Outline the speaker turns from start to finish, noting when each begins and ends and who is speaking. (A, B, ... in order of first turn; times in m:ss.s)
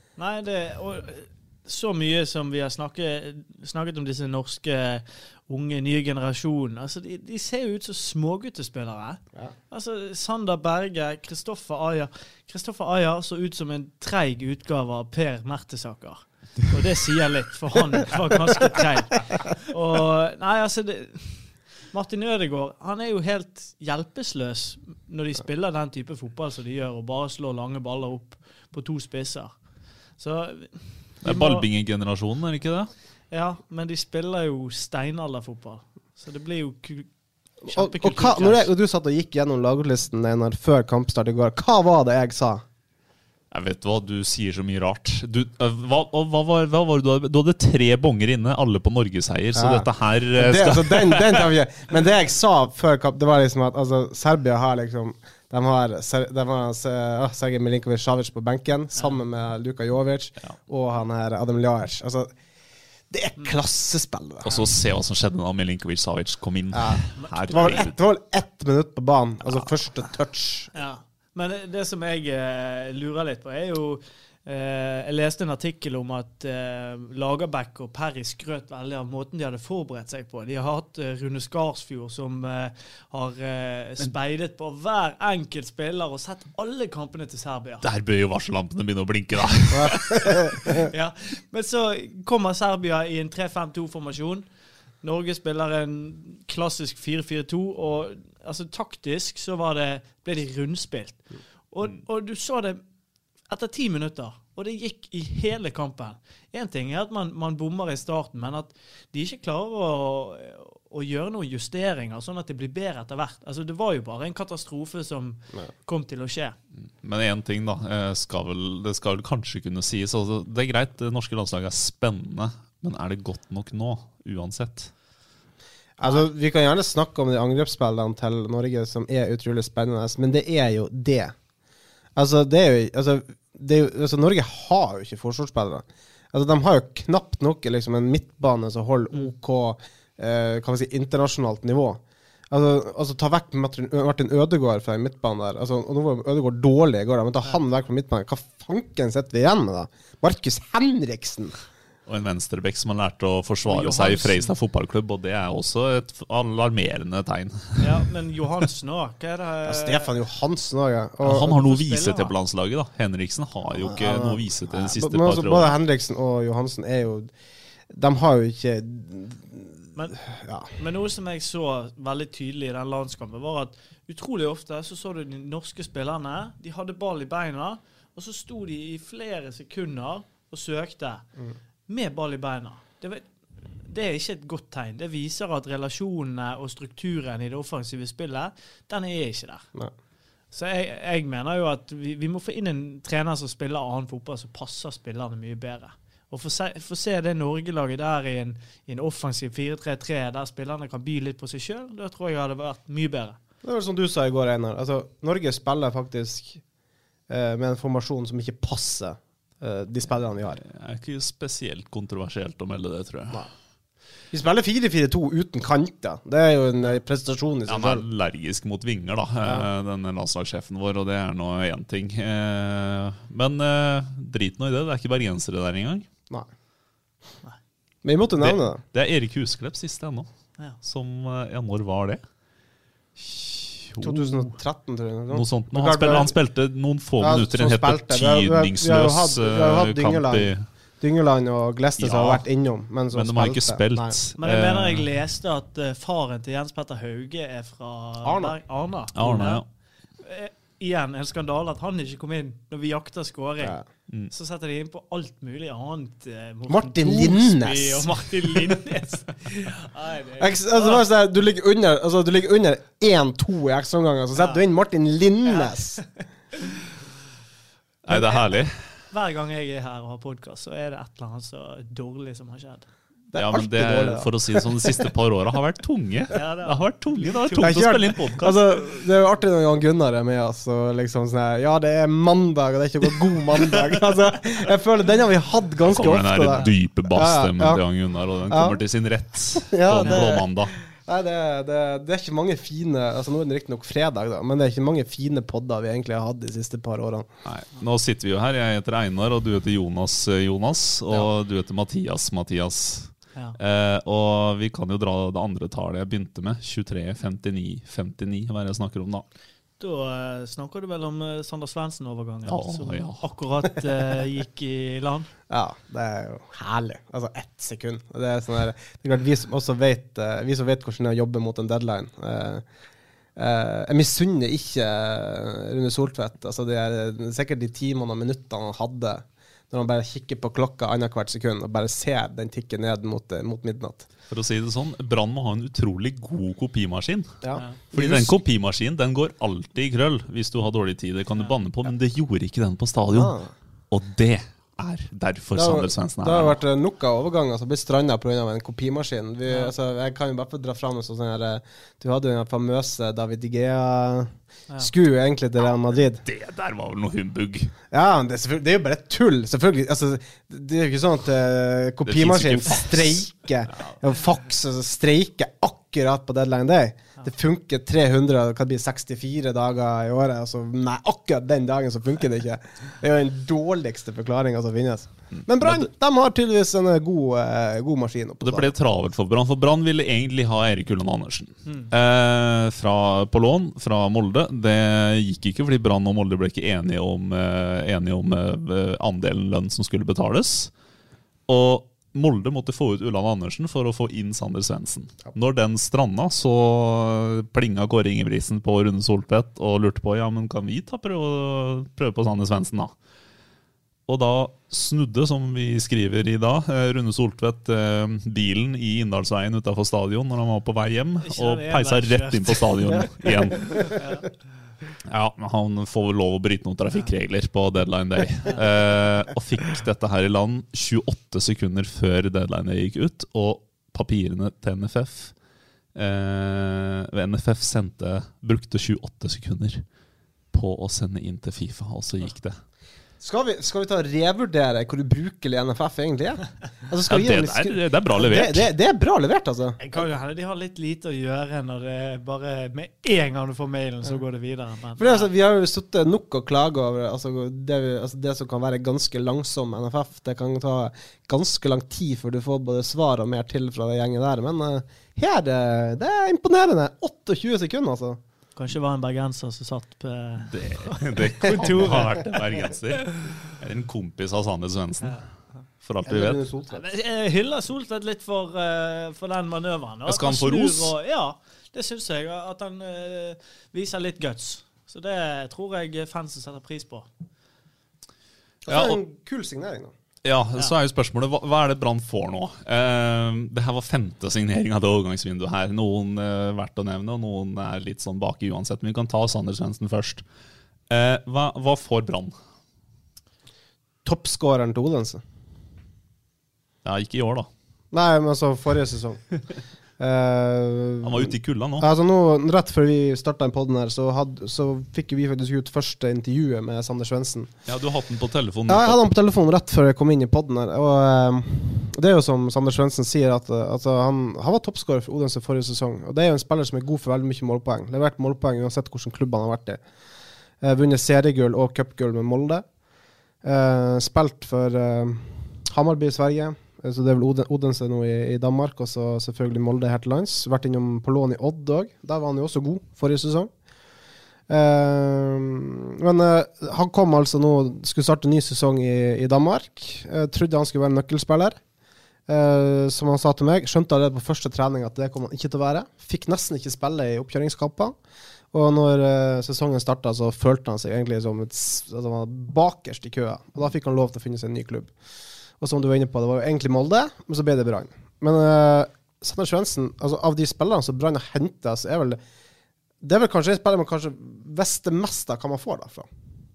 0:00.2-0:31.6 A
0:31.2-0:32.9 B
0:33.3-0:37.1 A
0:37.6-0:38.7 A
0:37.7-0:42.6 C
0:43.5-0:51.5 B
0:49.6-1:02.3 C
1:03.1-1:04.7 C
1:04.4-1:07.9 B
1:06.7-1:10.7 C
1:07.2-1:07.9 A
1:10.7-1:27.9 A
1:27.8-1:30.2 B
1:29.7-1:30.9 C
1:30.9-1:34.5 A
1:35.0-1:42.8 A
1:43.5-1:56.6 A
1:56.8-2:04.9 B
2:06.0-2:11.4 C
2:12.1-2:31.5 C
2:32.1-2:38.0 B
2:33.6-2:34.5 A
2:37.8-2:40.1 A
2:39.6-2:41.6 C
2:41.2-2:45.7 B
2:41.5-2:42.3 A
2:43.8-2:47.3 C
2:47.9-2:50.7 C
2:49.9-2:50.2 A
2:50.8-3:01.2 A
3:01.9-3:09.7 A
3:10.5-3:23.4 A
3:23.6-3:26.6 C
3:27.3-3:30.6 C
3:30.6-3:33.5 B
3:34.3-3:38.0 C
3:37.7-3:46.0 B
3:48.0-3:48.8 C
3:48.4-3:52.2 B
3:53.2-3:54.4 B
3:54.0-3:56.4 C
3:55.3-4:00.7 B
3:57.2-4:04.2 C
4:02.0-4:02.4 B
4:03.1-4:05.0 B
4:04.4-4:09.6 A
4:08.2-4:08.6 C
4:09.2-4:09.6 B
4:10.2-4:13.8 A
4:13.6-4:13.8 C
4:14.3-4:21.0 A
4:16.7-4:18.6 C
4:20.4-4:26.0 C
4:24.4-4:24.6 A
4:25.4-4:26.2 A
4:28.0-4:28.7 B
4:28.1-4:28.4 A
4:29.1-4:32.8 A
4:33.3-4:34.9 C
4:33.3-4:38.6 B
4:36.3-4:38.1 A
4:37.6-4:47.8 C
4:45.8-4:50.7 B
4:48.5-4:48.8 C
4:49.6-4:57.3 C
4:50.0-4:50.3 A
4:57.4-5:09.2 B
5:09.8-5:15.3 A
5:12.4-5:13.3 B
5:15.5-5:22.6 C
5:23.4-5:34.1 C
5:34.3-5:46.6 B
5:37.4-5:38.3 C
5:43.1-5:43.5 C
5:45.5-5:56.2 C
5:49.5-5:49.7 A
5:56.2-5:57.7 B
5:57.9-6:18.7 C
6:02.0-6:03.3 B
6:15.3-6:15.9 B
6:18.4-6:30.7 B
6:21.6-6:21.9 A
6:31.5-6:42.9 B
6:44.1-6:53.9 B
6:51.2-6:53.1 A
6:53.8-6:54.3 A
6:55.0-7:05.4 B
7:05.9-7:09.9 B
7:10.5-7:12.6 B
7:13.2-7:20.0 C
7:17.1-7:18.7 B
7:19.8-7:25.3 A
7:25.0-7:38.2 C
7:38.6-7:42.4 A
7:40.4-7:45.2 B
7:45.0-7:45.6 A
7:45.8-7:46.4 B
7:46.0-7:46.9 C
7:46.7-7:57.1 A
7:50.0-7:50.9 B
7:58.6-7:59.9 C
7:58.7-7:59.0 B
8:00.2-8:10.2 B
8:10.9-8:12.4 B
8:14.0-8:15.2 C
8:16.8-8:17.5 B
8:17.9-8:19.4 C
8:20.0-8:27.5 C
8:21.0-8:21.9 B
8:27.6-8:29.0 B
8:28.7-8:39.8 C
8:40.6-8:42.6 C
8:43.4-8:53.5 C
8:54.5-9:01.6 C
9:02.2-9:08.0 C
9:08.5-9:14.9 C
9:15.6-9:22.2 C
9:23.0-9:26.1 C